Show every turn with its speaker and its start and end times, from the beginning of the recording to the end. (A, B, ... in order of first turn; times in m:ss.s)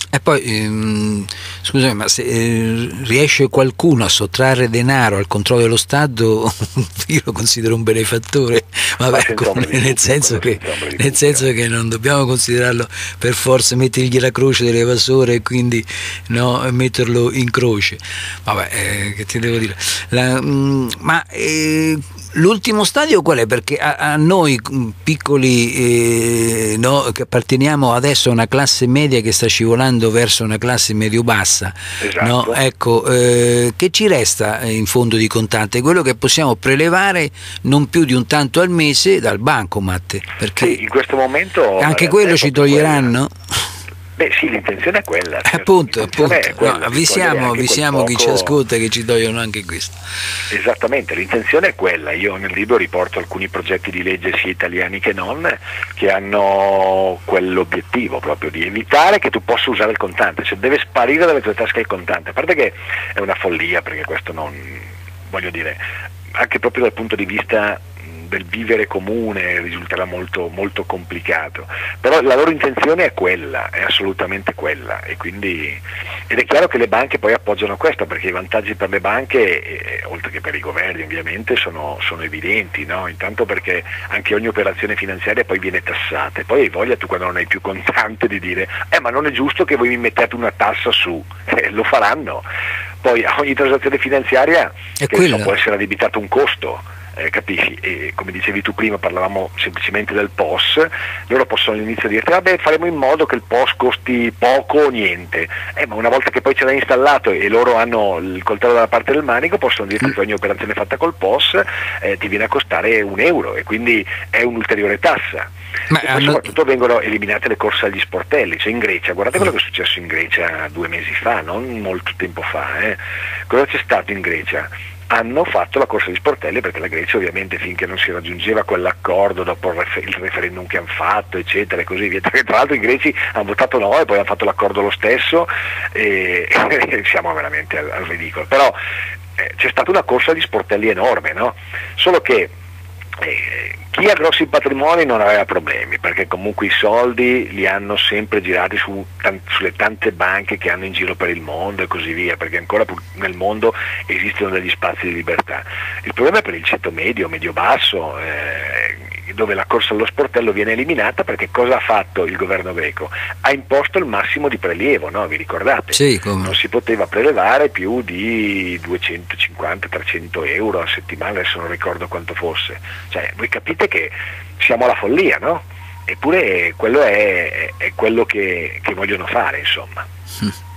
0:00.1-0:40.8 A
0:09.1-0:11.4 B
0:32.0-0:32.6 B
0:40.6-0:43.1 B
0:41.8-0:43.3 A
0:44.2-0:48.6 B
0:45.4-0:50.0 A
0:50.5-1:05.8 B
1:06.3-1:32.4 B
1:33.0-2:18.7 B
1:35.0-1:35.5 A
1:55.9-1:56.4 A
2:19.4-2:22.5 B
2:23.2-3:00.1 B
2:45.9-2:46.5 A